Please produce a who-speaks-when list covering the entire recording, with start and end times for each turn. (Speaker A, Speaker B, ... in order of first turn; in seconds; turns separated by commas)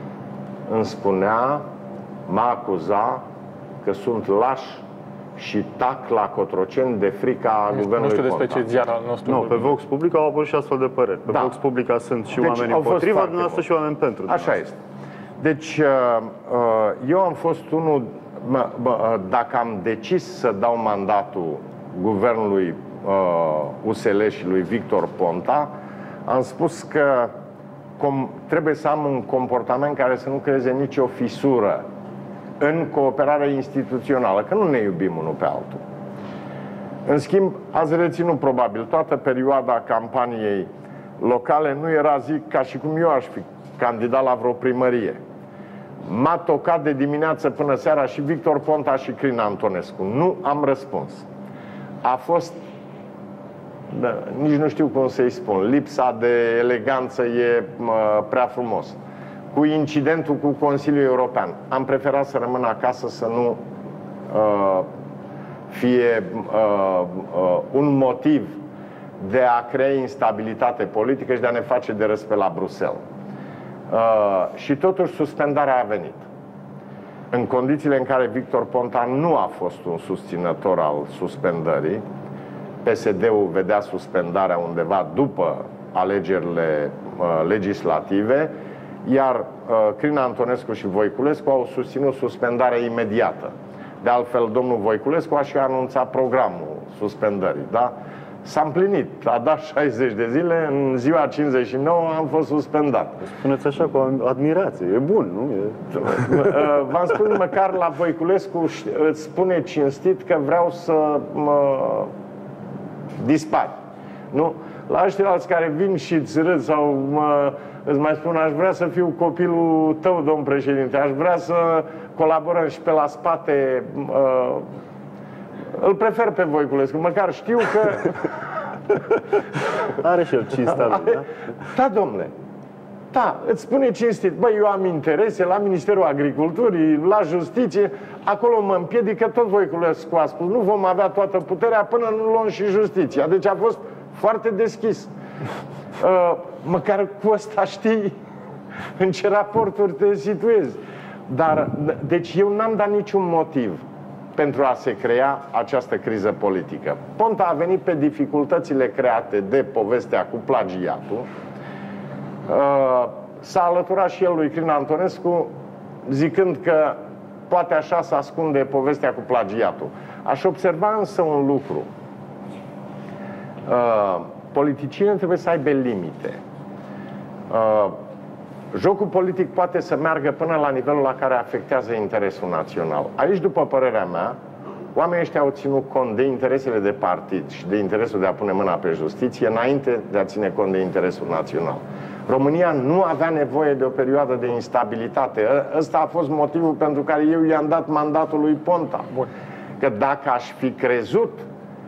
Speaker A: 0.7-1.6, Speaker A: 2.3-3.2, Speaker A: 3.8-4.8, Speaker A: 5.4-8.7, Speaker B: 7.7-9.8, Speaker C: 9.3-14.6, Speaker A: 11.3-11.6, Speaker A: 12.4-13.7, Speaker A: 14.3-14.8, Speaker A: 15.4-25.7, Speaker A: 26.3-27.3, Speaker A: 28.0-31.9, Speaker A: 32.6-35.8, Speaker A: 37.1-45.2, Speaker A: 46.0-51.3, Speaker A: 52.0-52.6, Speaker A: 53.9-59.0, Speaker A: 59.5-63.6, Speaker A: 64.3-64.9, Speaker A: 65.7-68.6, Speaker A: 69.2-73.0, Speaker A: 73.9-76.2, Speaker A: 77.3-82.0, Speaker A: 82.8-103.2, Speaker C: 103.2-106.3, Speaker A: 105.9-112.1, Speaker A: 113.2-113.8, Speaker A: 114.3-124.7, Speaker A: 125.7-128.2, Speaker C: 129.9-131.3, Speaker A: 131.7-132.3, Speaker A: 133.1-145.1, Speaker A: 146.0-148.2, Speaker A: 149.0-153.8, Speaker A: 154.3-161.3, Speaker A: 162.5-165.5, Speaker A: 166.1-167.0, Speaker A: 167.5-171.9, Speaker A: 173.7-176.4, Speaker A: 177.5-178.0, Speaker A: 178.7-184.4, Speaker A: 184.9-199.1, Speaker A: 199.8-201.5